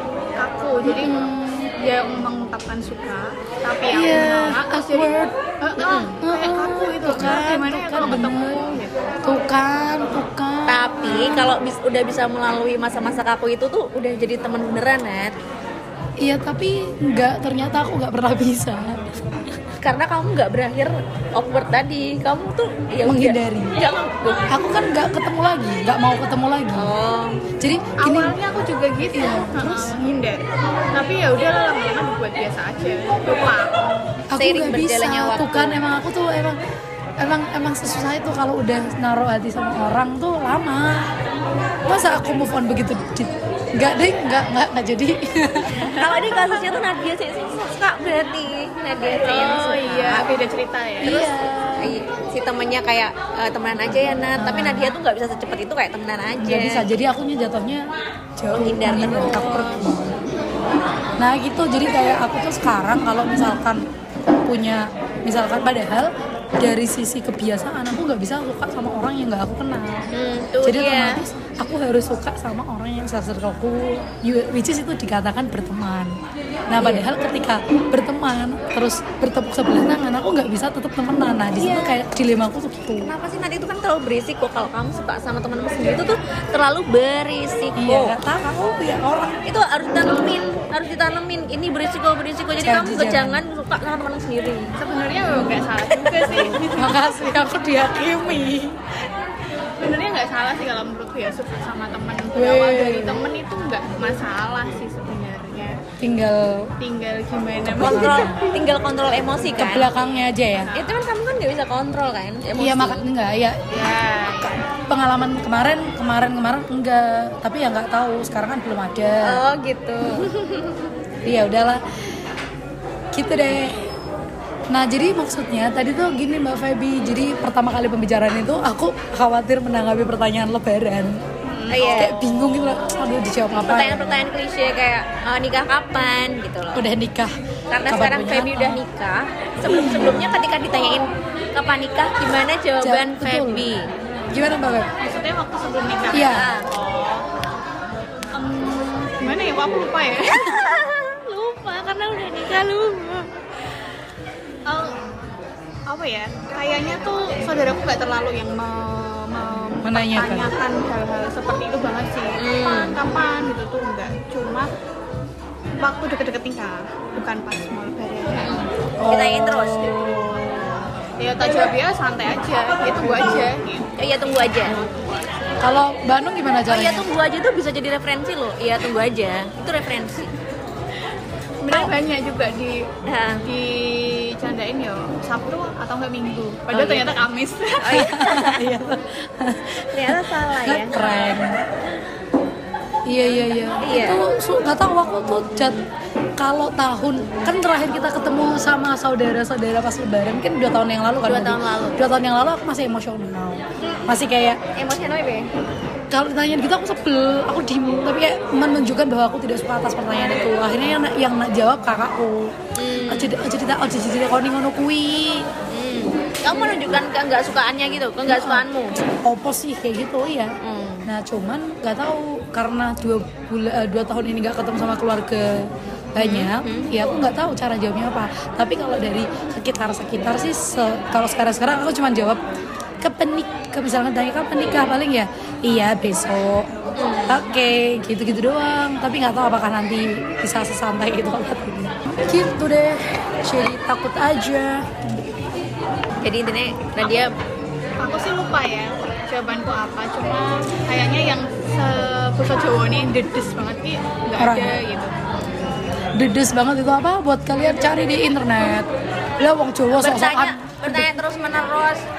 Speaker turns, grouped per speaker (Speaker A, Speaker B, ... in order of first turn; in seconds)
Speaker A: 0.3-9.0, 28.0-33.8, 49.2-51.3, 94.8-97.4, 99.8-105.7, 106.8-108.6, 110.4-110.9, 113.7-114.5, 131.5-132.0, 145.0-147.3, 148.3-150.6, 154.7-155.0, 155.9-164.7, 165.8-168.7, 171.2-173.9, 174.5-175.3, 181.6-182.9, 183.4-188.1, 248.0-255.1
Speaker B: 0.8-1.7, 3.9-5.3, 5.9-11.5, 16.2-19.0, 23.0-23.8, 24.5-26.9, 27.6-28.4, 29.1-30.0, 34.3-36.6, 37.2-41.0, 41.9-46.1, 51.0-52.0, 54.4-55.0, 56.4-60.2, 61.2-63.8, 64.4-70.0, 70.6-76.1, 76.7-83.1, 87.8-89.4, 92.6-93.4, 96.8-98.8, 102.3-103.2, 106.0-106.7, 107.6-108.4, 109.5-110.7, 112.6-113.7, 114.4-119.4, 121.2-121.8, 123.1-123.8, 124.7-131.2, 131.8-134.3, 136.7-137.3, 137.8-138.8, 139.6-140.4, 142.8-143.7, 144.3-144.9, 146.1-146.6, 159.8-160.5, 169.0-170.4, 175.6-177.1, 187.9-191.6, 193.1-195.8, 196.4-204.6, 206.1-215.5, 218.3-220.5, 221.1-232.4, 233.0-236.7, 237.3-244.9, 254.4-254.8, 256.1-261.2
Speaker C: 5.8-6.2, 10.7-15.3, 19.8-24.5, 26.7-27.4, 34.4-35.9, 45.8-50.3, 51.8-56.9, 58.5-59.8, 60.6-61.2, 70.1-71.2, 76.8-77.1, 81.6-82.0, 83.0-88.2, 89.4-94.7, 96.1-96.6, 107.8-109.9, 110.7-113.0, 119.2-120.8, 131.7-132.2, 133.6-136.8, 137.7-143.9, 146.2-146.7, 150.3-153.3, 162.4-163.0, 168.4-170.1, 174.0-174.8, 176.7-180.3, 183.1-183.4, 186.7-187.2, 187.8-188.7, 189.9-191.3, 193.8-194.2, 201.2-202.0, 203.8-204.2, 204.7-205.5, 212.8-213.4, 215.7-219.0, 220.6-221.1, 226.2-226.9, 237.0-237.4, 246.2-247.3, 259.9-262.1